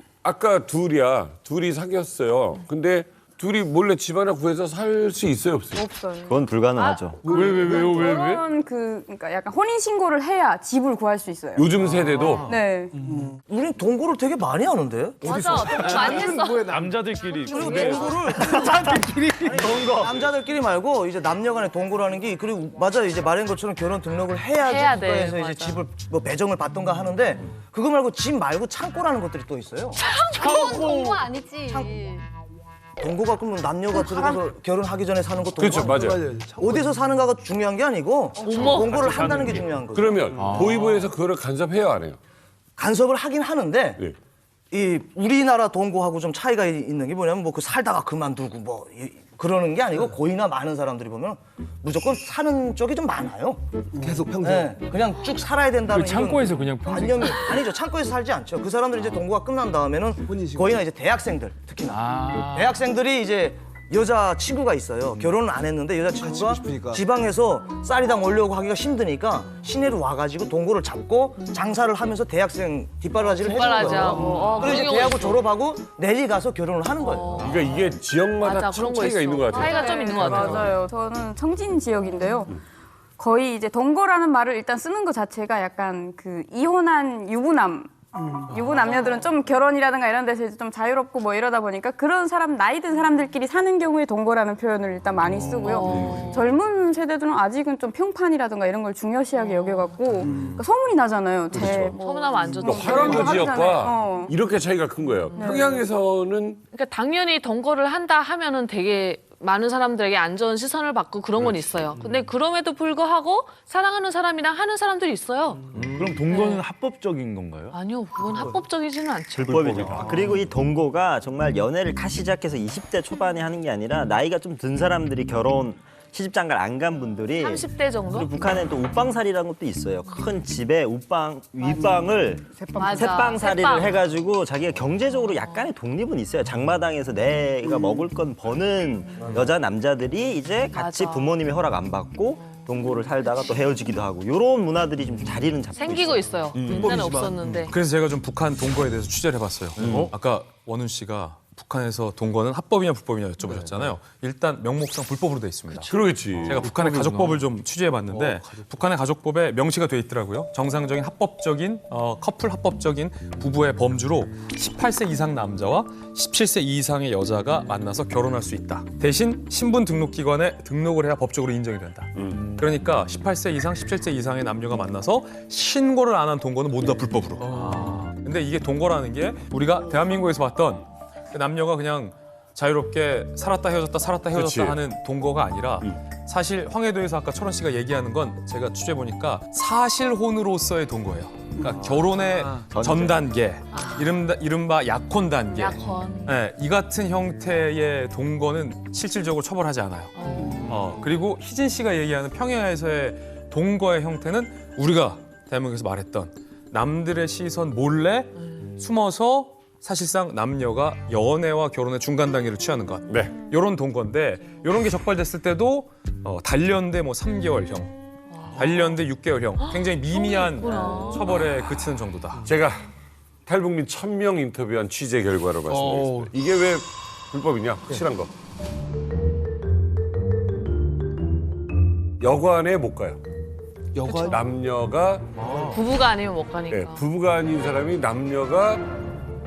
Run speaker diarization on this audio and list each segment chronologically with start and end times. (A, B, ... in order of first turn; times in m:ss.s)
0:00.2-0:05.8 A
0:05.7-0:06.4 B
0:06.2-0:07.2 C
0:07.3-0:11.7 B
0:07.4-0:07.6 A
0:11.6-0:12.5 A
0:12.4-0:13.1 B
0:13.5-0:16.4 D
0:15.2-0:16.8 E
0:16.7-0:18.0 F
0:17.4-0:30.0 D
0:17.5-0:18.1 E
0:24.6-0:25.8 E
0:30.2-0:32.2 G
0:30.2-0:30.8 E
0:33.0-0:40.5 D
0:35.6-0:36.2 A
0:36.2-0:36.7 H
0:38.4-0:39.0 E
0:39.0-0:39.6 F
0:39.9-0:42.2 A
0:42.8-0:44.0 D
0:44.7-0:53.6 D
0:54.0-0:54.6 H
0:54.3-1:17.5 D
1:06.2-1:07.0 H
1:13.2-1:15.4 E
1:17.0-1:17.8 E
1:17.4-1:20.8 A
1:18.4-1:20.8 E
1:19.6-1:22.5 B
1:23.2-1:44.4 B
1:28.8-1:29.3 E
1:35.4-1:36.5 E
1:35.8-1:36.3 A
1:39.3-1:40.1 E
1:41.5-1:42.0 A
1:41.7-1:43.7 E
1:42.6-1:46.6 A
1:45.2-1:45.8 E
1:45.3-1:45.9 B
1:46.7-1:55.7 E
1:51.4-1:51.7 A
1:55.7-1:57.7 F
1:56.3-1:56.6 E
1:57.7-1:59.6 E
1:59.3-2:26.9 C
1:59.6-2:00.1 F
2:07.4-2:08.3 E
2:12.8-2:14.0 E
2:20.7-2:21.4 E
2:25.7-2:27.7 E
2:27.7-3:20.1 I
2:29.8-2:30.1 A
2:35.7-2:36.0 E
2:35.9-2:36.7 A
2:52.1-2:52.5 A
3:04.3-3:04.8 A
3:12.7-3:13.1 C
3:13.7-3:14.2 E
3:15.5-3:16.4 E
3:20.2-3:21.1 E
3:20.6-3:37.9 I
3:33.1-3:33.4 A
3:38.3-3:38.8 E
3:38.5-3:42.4 I
3:39.6-3:41.9 E
3:42.4-3:42.8 A
3:43.4-3:48.3 A
3:52.2-3:53.2 A
3:54.1-3:54.4 E
3:54.2-3:55.4 A
3:55.6-3:57.0 E
3:56.7-3:58.8 A